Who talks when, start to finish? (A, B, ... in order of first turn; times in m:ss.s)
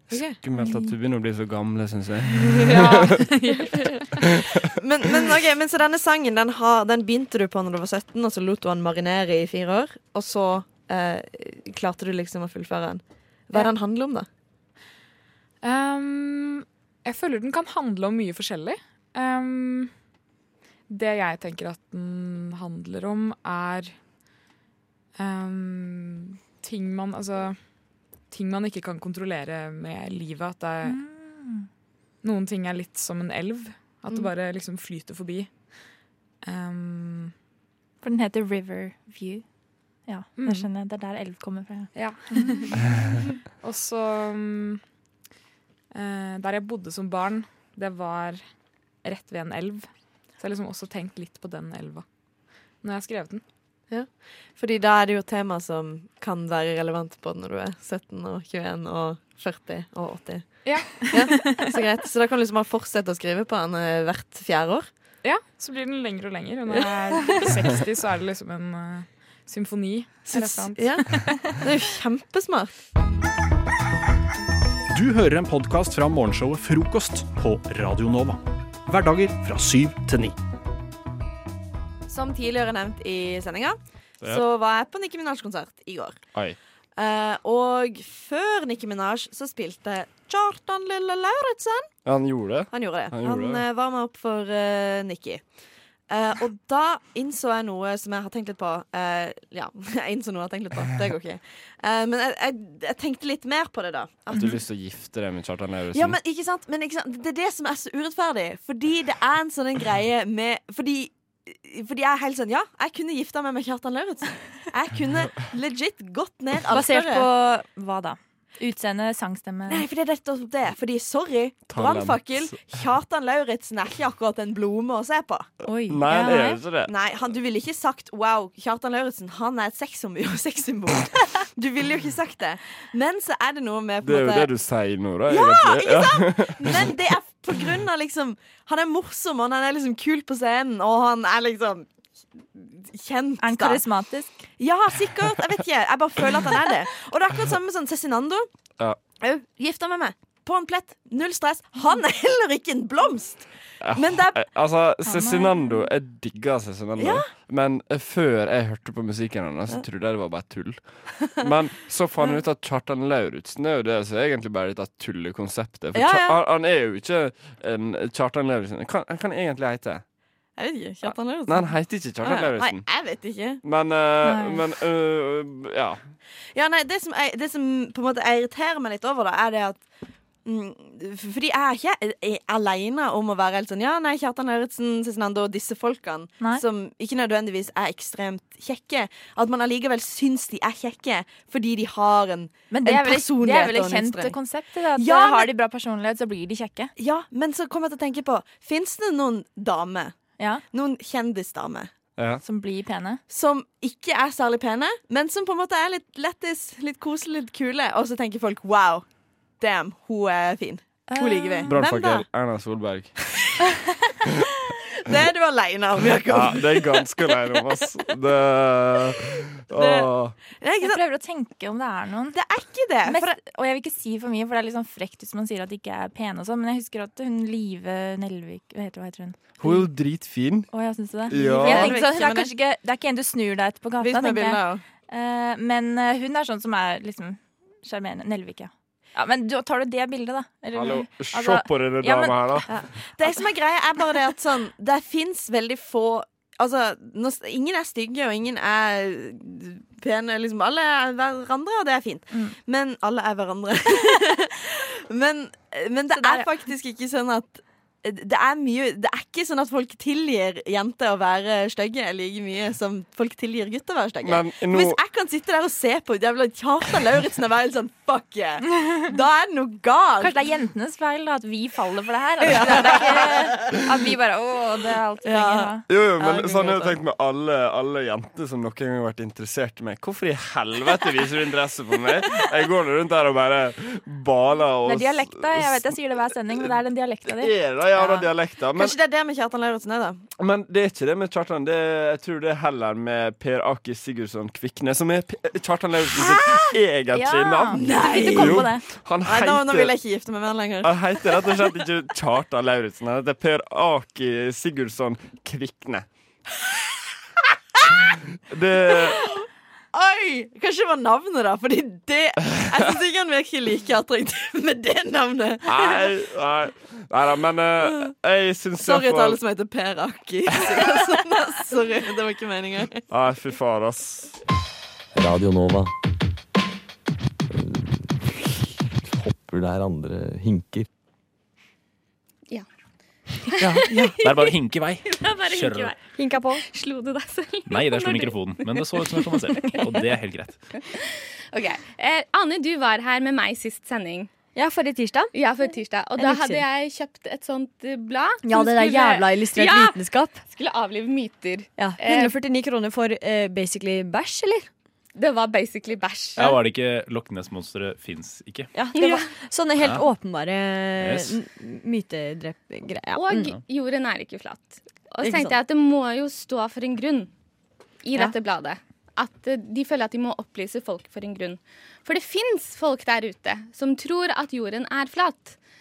0:00.1-0:00.4 A
0:00.4-0:03.3 B
0:00.6-0:00.9 C
0:02.7-0:03.9 D
0:04.7-0:14.3 A
0:15.6-0:19.9 D
0:20.9-0:24.0 D
0:25.2-0:27.6 D
0:28.3-0:31.0 D
0:30.8-0:31.7 C
0:32.2-0:35.5 D
0:36.4-0:37.3 D
0:38.0-0:39.4 C
0:40.1-0:42.6 C
0:40.4-0:40.7 D
0:41.9-0:42.8 D
0:43.6-0:44.8 D
0:45.9-0:48.4 D
0:49.0-0:52.0 D
0:52.8-0:53.4 D
0:53.9-1:04.9 A
1:00.6-1:01.6 D
1:05.2-1:11.6 D
1:10.3-1:12.7 A
1:14.9-1:20.4 E
1:22.1-1:26.2 A
1:27.0-1:31.9 A
1:32.0-1:33.6 B
1:32.7-1:35.4 A
1:36.1-1:44.5 A
1:44.3-1:46.2 B
1:45.9-1:57.3 A
1:56.6-1:59.9 C
1:59.7-2:05.5 A
2:01.7-2:02.6 B
2:05.6-2:06.7 C
2:05.9-2:06.9 B
2:06.9-2:14.5 A
2:14.0-2:17.0 B
2:15.3-2:21.9 A
2:22.6-2:23.8 A
2:23.4-2:24.4 C
2:24.6-2:28.5 A
2:29.2-2:34.4 A
2:33.8-2:50.0 B
2:35.0-2:35.9 C
2:37.0-2:37.2 A
2:45.9-2:46.4 A
2:50.6-2:53.6 A
2:51.0-2:52.8 B
2:53.6-2:56.0 B
2:54.2-2:54.7 C
2:56.6-2:59.9 A
3:00.4-3:14.4 A
3:12.7-3:16.9 C
3:15.0-3:15.5 A
3:17.0-3:20.2 A
3:20.4-3:20.6 C
3:20.7-3:21.9 A
3:22.2-3:22.4 B
3:22.4-3:23.2 C
3:23.3-3:29.0 A
3:29.6-3:32.3 A
3:31.1-3:31.7 C
3:31.7-3:33.2 B
3:34.7-3:37.6 A
3:36.3-3:40.4 B
3:39.7-3:40.1 A
3:40.6-3:41.0 A
3:40.8-3:42.4 C
3:42.3-3:43.4 A
3:43.1-3:49.9 C
3:49.6-3:50.7 B
3:50.7-4:02.7 C
3:51.3-3:52.0 B
3:51.3-3:52.5 A
3:54.0-3:54.8 A
4:00.8-4:02.8 B
4:02.7-4:30.4 A
4:16.1-4:16.5 C
4:24.2-4:25.0 B
4:30.2-4:35.9 C
4:32.4-4:33.8 A
4:35.2-4:37.0 A
4:35.9-4:45.9 B
4:44.8-4:48.3 C
4:47.3-4:49.0 B
4:48.8-4:50.2 A
4:50.4-5:00.0 B
4:56.2-4:56.7 A
4:57.1-4:58.8 C
4:57.7-5:01.6 A
5:00.8-5:06.1 B
5:08.5-5:09.3 B
5:08.9-5:09.4 A
5:09.9-5:16.1 A
5:15.6-5:19.4 B
5:18.8-5:23.0 A
5:20.5-5:21.1 B
5:23.1-5:24.3 B
5:25.1-5:25.9 F
5:27.5-5:30.9 F
5:33.5-5:34.5 G
5:33.6-5:35.9 H
5:35.0-5:40.1 G
5:36.2-5:36.6 I
5:37.7-5:40.6 H
5:40.9-5:44.3 G
5:44.6-5:45.3 I
5:45.3-5:52.4 G
5:46.2-5:46.6 I
5:48.4-5:50.4 I
5:51.8-5:54.7 I
5:55.2-5:56.6 G
5:56.4-5:58.7 H
5:58.7-6:03.5 I
5:59.0-5:59.3 G
6:01.0-6:01.4 H
6:03.2-6:07.3 G
6:05.2-6:05.6 I
6:08.0-6:15.6 G